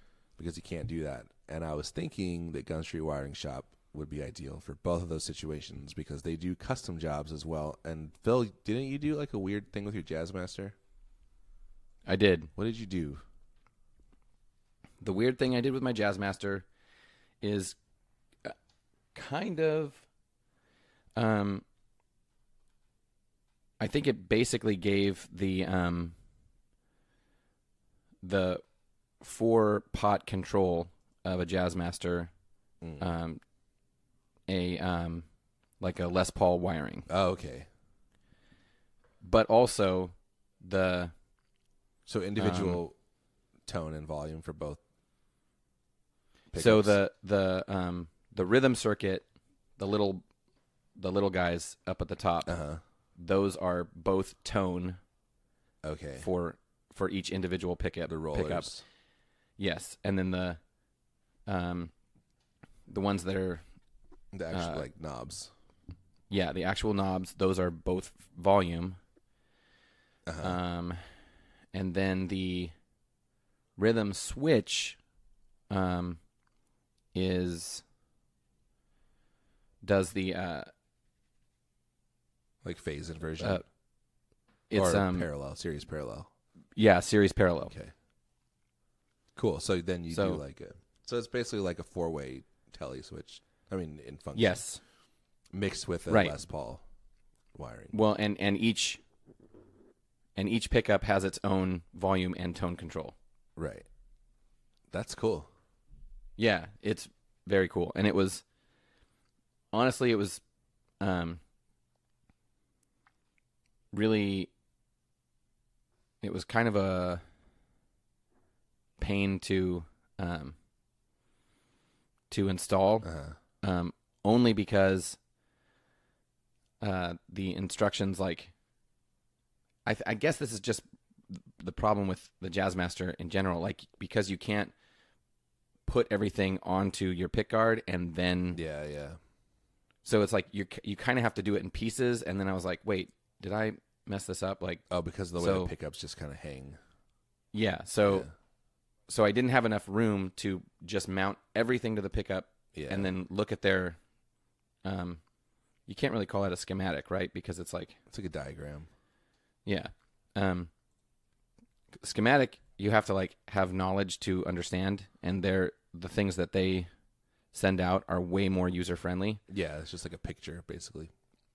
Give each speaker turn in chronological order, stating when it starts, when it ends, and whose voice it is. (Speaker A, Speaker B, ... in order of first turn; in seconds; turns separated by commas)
Speaker A: 0.4-10.7, Speaker B: 12.0-12.5, Speaker A: 12.6-13.2, Speaker B: 15.0-16.6, Speaker B: 17.4-17.8, Speaker B: 19.1-20.0, Speaker B: 21.1-21.6, Speaker B: 23.8-26.1, Speaker B: 28.2-28.6, Speaker B: 29.2-32.3, Speaker B: 33.0-33.4, Speaker B: 34.5-35.3, Speaker B: 35.8-37.1, Speaker A: 37.1-37.7, Speaker B: 39.2-41.1, Speaker A: 42.1-43.0, Speaker B: 42.4-42.8, Speaker A: 43.7-44.8, Speaker A: 46.5-47.0, Speaker B: 46.5-50.2, Speaker B: 50.9-52.6, Speaker A: 52.5-52.8, Speaker B: 53.2-55.0, Speaker A: 55.8-56.3, Speaker B: 56.2-58.8, Speaker A: 58.1-58.8, Speaker B: 59.6-60.6, Speaker B: 61.5-61.9, Speaker B: 62.9-63.6, Speaker A: 64.3-65.5, Speaker B: 64.5-64.9, Speaker B: 66.3-69.0, Speaker A: 70.2-70.6, Speaker B: 70.4-71.1, Speaker B: 71.7-72.7, Speaker B: 73.8-75.0, Speaker B: 75.7-76.2, Speaker B: 77.1-77.8, Speaker B: 79.8-80.7, Speaker A: 82.6-83.6, Speaker B: 83.4-83.7, Speaker B: 84.7-85.3, Speaker A: 84.7-86.3, Speaker B: 86.8-87.7, Speaker A: 89.3-94.6, Speaker B: 90.1-90.4, Speaker B: 94.3-94.8, Speaker A: 95.5-96.8, Speaker B: 96.1-96.3, Speaker A: 97.5-97.9, Speaker B: 97.9-99.0, Speaker B: 100.3-103.1, Speaker A: 103.5-103.8, Speaker A: 104.9-105.5, Speaker B: 106.4-108.4, Speaker B: 109.7-110.4, Speaker B: 111.0-111.4, Speaker B: 113.9-114.5, Speaker B: 116.2-117.2, Speaker B: 119.0-120.5, Speaker B: 122.3-125.2, Speaker A: 123.0-123.4, Speaker B: 126.8-128.5, Speaker B: 129.8-134.7, Speaker B: 135.8-138.6, Speaker A: 138.5-139.2, Speaker B: 140.0-145.7, Speaker A: 144.9-146.8, Speaker B: 147.5-148.3, Speaker A: 148.0-148.3, Speaker B: 149.1-154.0, Speaker A: 152.7-153.1, Speaker B: 154.8-155.2, Speaker B: 155.9-158.0, Speaker A: 158.1-158.9, Speaker B: 159.6-160.7, Speaker B: 162.0-166.9, Speaker B: 167.5-169.4, Speaker A: 169.5-171.1